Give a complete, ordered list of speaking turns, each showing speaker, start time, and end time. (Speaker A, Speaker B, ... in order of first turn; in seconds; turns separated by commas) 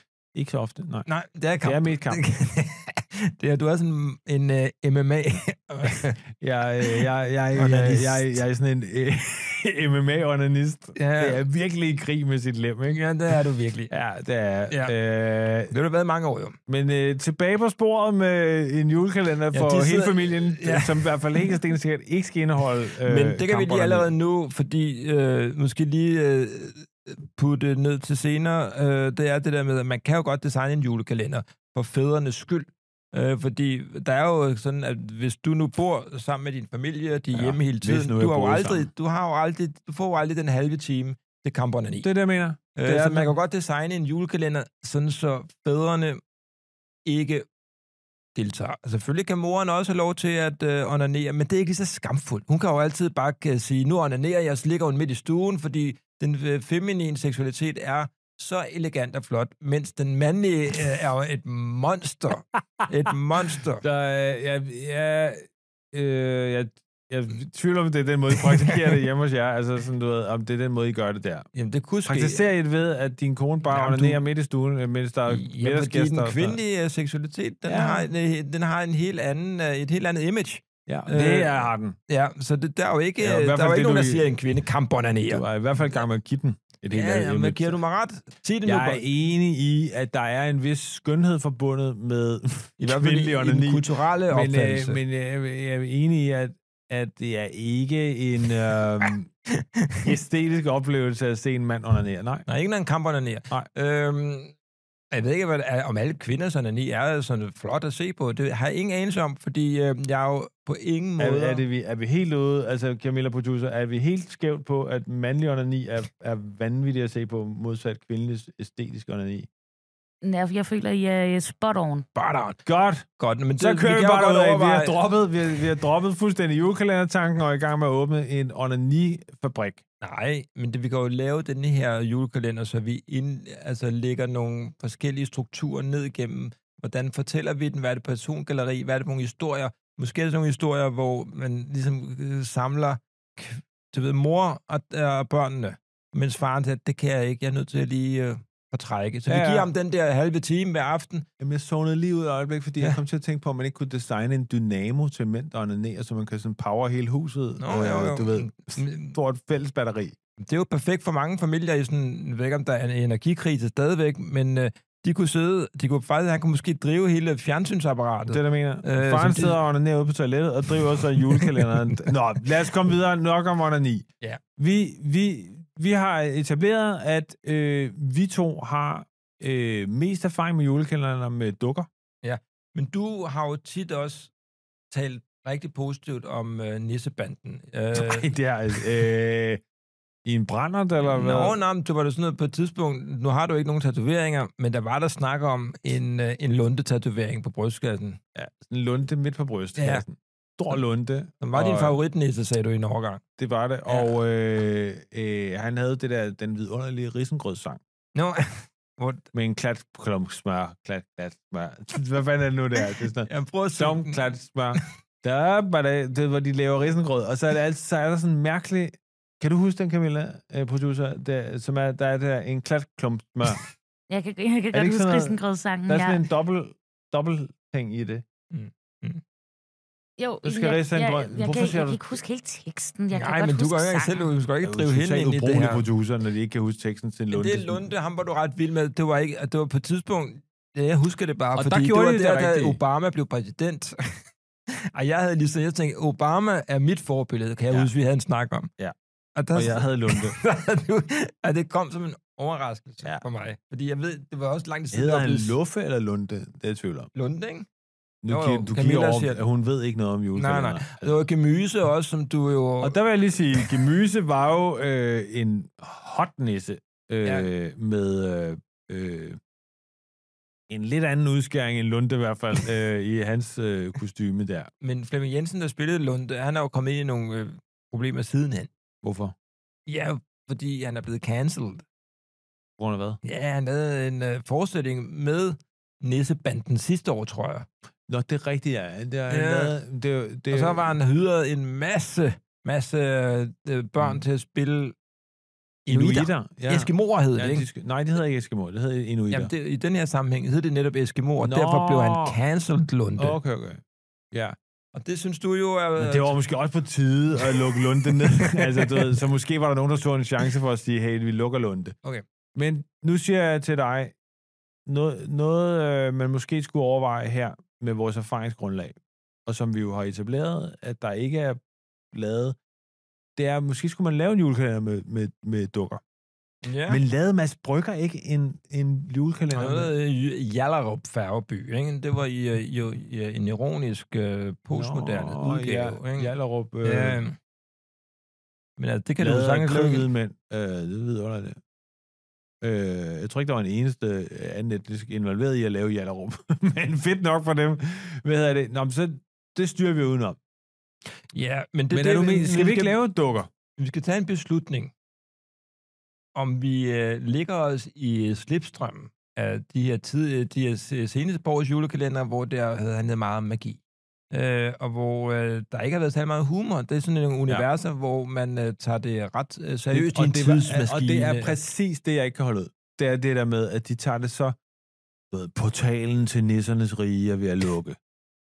Speaker A: 0.3-1.1, Speaker B: 1.1-6.2, Speaker A: 1.6-2.2, Speaker A: 6.4-13.0, Speaker B: 6.8-8.4, Speaker B: 10.9-11.4, Speaker B: 12.9-13.9, Speaker A: 13.9-15.7, Speaker B: 15.7-16.6, Speaker A: 16.7-24.1, Speaker B: 19.5-21.6, Speaker B: 23.0-42.1, Speaker A: 37.3-38.9, Speaker A: 42.0-43.3, Speaker B: 42.8-46.2, Speaker B: 47.0-47.5, Speaker B: 48.4-63.8, Speaker A: 63.5-71.5, Speaker B: 68.4-68.9, Speaker B: 71.5-72.4, Speaker A: 72.1-76.6, Speaker B: 73.7-74.2, Speaker B: 75.3-85.4, Speaker A: 77.7-78.0, Speaker A: 80.9-82.0, Speaker A: 83.2-84.3, Speaker A: 85.3-87.8, Speaker B: 86.9-89.0, Speaker A: 88.6-99.3, Speaker B: 92.8-95.0, Speaker B: 99.5-100.1, Speaker A: 100.0-102.5, Speaker B: 102.5-104.5, Speaker B: 105.1-111.6, Speaker A: 111.2-119.5, Speaker C: 120.2-122.1, Speaker B: 122.1-122.6, Speaker A: 122.6-123.1, Speaker B: 123.2-125.0, Speaker A: 123.6-129.8, Speaker B: 130.0-151.3, Speaker A: 149.3-149.7, Speaker A: 151.4-160.2, Speaker B: 157.6-159.2, Speaker B: 160.4-169.6, Speaker A: 168.3-174.1, Speaker B: 170.8-172.1, Speaker A: 174.6-181.9, Speaker B: 182.2-184.3, Speaker B: 184.9-188.9, Speaker A: 187.9-189.6, Speaker A: 190.2-191.6, Speaker B: 191.0-198.2, Speaker A: 198.3-202.0, Speaker B: 199.8-200.0, Speaker B: 201.4-203.2, Speaker A: 203.4-207.8, Speaker B: 203.9-204.1, Speaker B: 208.2-209.3, Speaker A: 209.3-223.6, Speaker B: 213.2-214.8, Speaker C: 224.1-226.2, Speaker A: 224.7-228.2, Speaker B: 228.5-229.2, Speaker C: 230.2-234.3, Speaker A: 230.4-232.2, Speaker B: 233.1-235.9, Speaker A: 234.6-237.9, Speaker B: 237.3-248.7, Speaker A: 241.6-242.8, Speaker B: 249.3-255.5, Speaker A: 249.5-250.4, Speaker A: 254.9-257.1, Speaker B: 257.1-257.7, Speaker A: 258.2-261.2, Speaker B: 258.3-259.4, Speaker B: 260.4-263.0, Speaker A: 262.8-269.4, Speaker A: 270.7-274.7, Speaker B: 274.8-278.7, Speaker A: 279.0-279.3, Speaker B: 279.9-281.8, Speaker A: 282.8-283.2, Speaker B: 283.2-287.7, Speaker A: 288.1-290.9, Speaker B: 289.3-289.7, Speaker B: 290.5-295.0, Speaker B: 295.9-297.7, Speaker A: 295.9-299.5, Speaker B: 299.3-303.4, Speaker A: 301.4-302.4, Speaker A: 303.2-304.6, Speaker B: 304.9-306.4, Speaker A: 306.0-311.9, Speaker B: 307.4-309.2, Speaker A: 312.5-314.1, Speaker A: 314.9-321.6, Speaker A: 322.1-322.6, Speaker A: 323.4-326.0, Speaker B: 326.6-327.0, Speaker A: 326.9-329.9, Speaker B: 329.5-336.3, Speaker A: 334.7-337.2, Speaker B: 336.8-337.3, Speaker B: 338.8-340.0, Speaker A: 339.2-341.6, Speaker A: 342.6-350.4, Speaker B: 351.3-352.9, Speaker A: 351.9-353.5, Speaker B: 353.8-354.9, Speaker B: 356.3-371.6, Speaker A: 369.9-374.5, Speaker A: 375.3-378.0